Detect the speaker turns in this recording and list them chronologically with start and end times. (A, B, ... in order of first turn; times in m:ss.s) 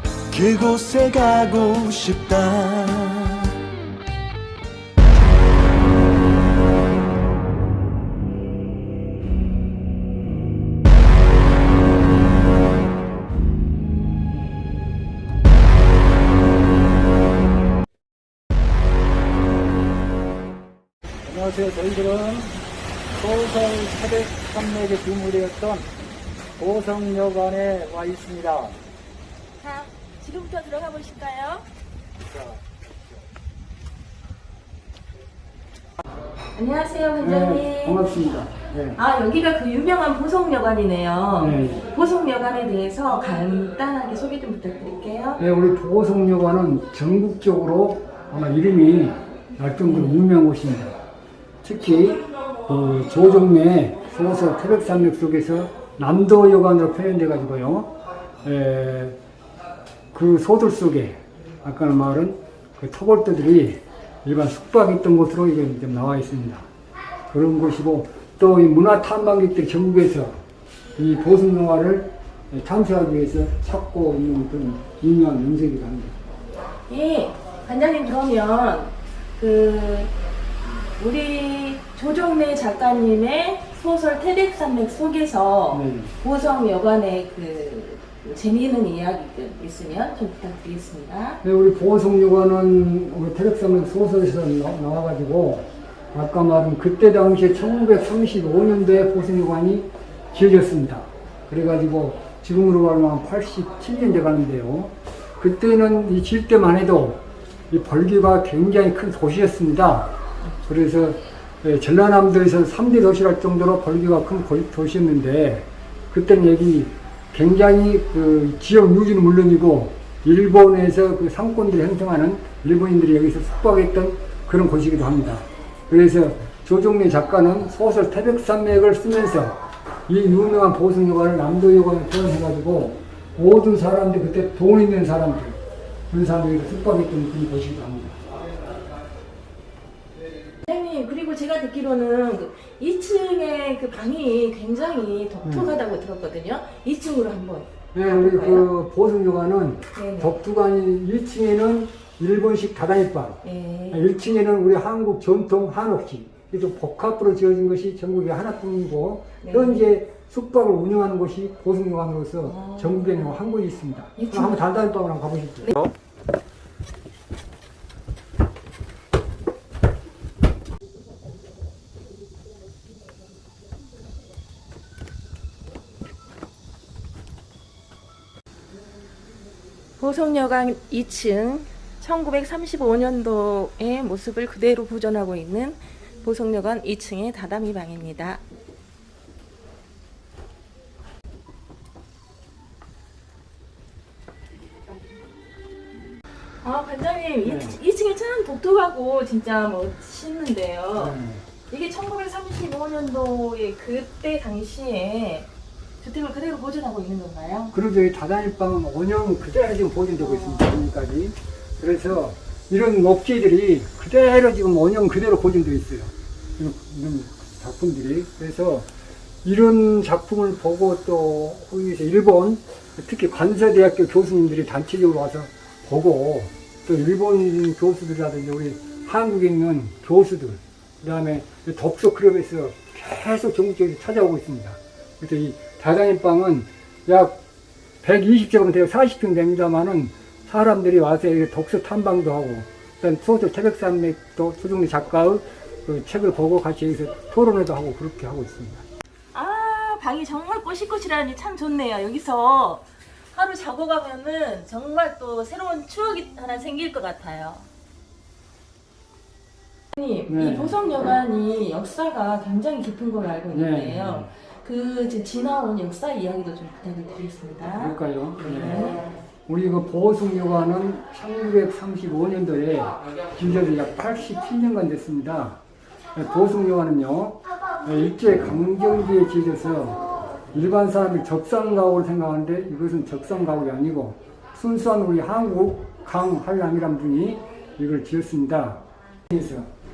0:00.3-0:03.5 A
0:21.2-0:22.5 B
0:23.2-0:25.9 B
0:26.6-0:28.8 B
0:29.6-0:31.6 C
0:32.2-0:32.6 B
0:36.5-0:38.0 C
0:37.2-0:39.0 B
0:39.0-0:45.4 C
0:41.4-0:41.9 B
0:45.4-0:51.0 B
0:51.6-0:59.2 B
1:00.1-1:06.7 B
1:07.3-1:10.4 B
1:11.0-1:16.2 B
1:16.9-1:20.1 C
1:21.0-1:31.4 C
1:25.7-1:26.1 B
1:31.4-1:50.1 B
1:50.6-2:18.2 B
2:20.6-2:28.7 C
2:25.4-2:25.8 B
2:27.9-2:45.9 B
2:29.9-2:30.3 C
2:33.4-2:34.0 C
2:39.4-2:39.8 C
2:42.4-2:43.3 C
2:44.2-2:44.6 C
3:00.0-3:08.4 C
3:16.6-3:21.2 C
3:17.4-3:17.8 B
3:20.9-3:21.4 B
3:21.7-3:25.5 C
3:26.0-3:27.7 C
3:27.7-3:38.9 B
3:30.2-3:30.7 C
3:39.4-3:57.4 B
3:58.0-4:08.8 B
4:09.3-4:17.7 C
4:19.9-4:29.1 C
4:20.3-4:20.8 B
4:23.5-4:24.3 B
4:27.7-4:35.6 B
4:36.1-4:49.7 B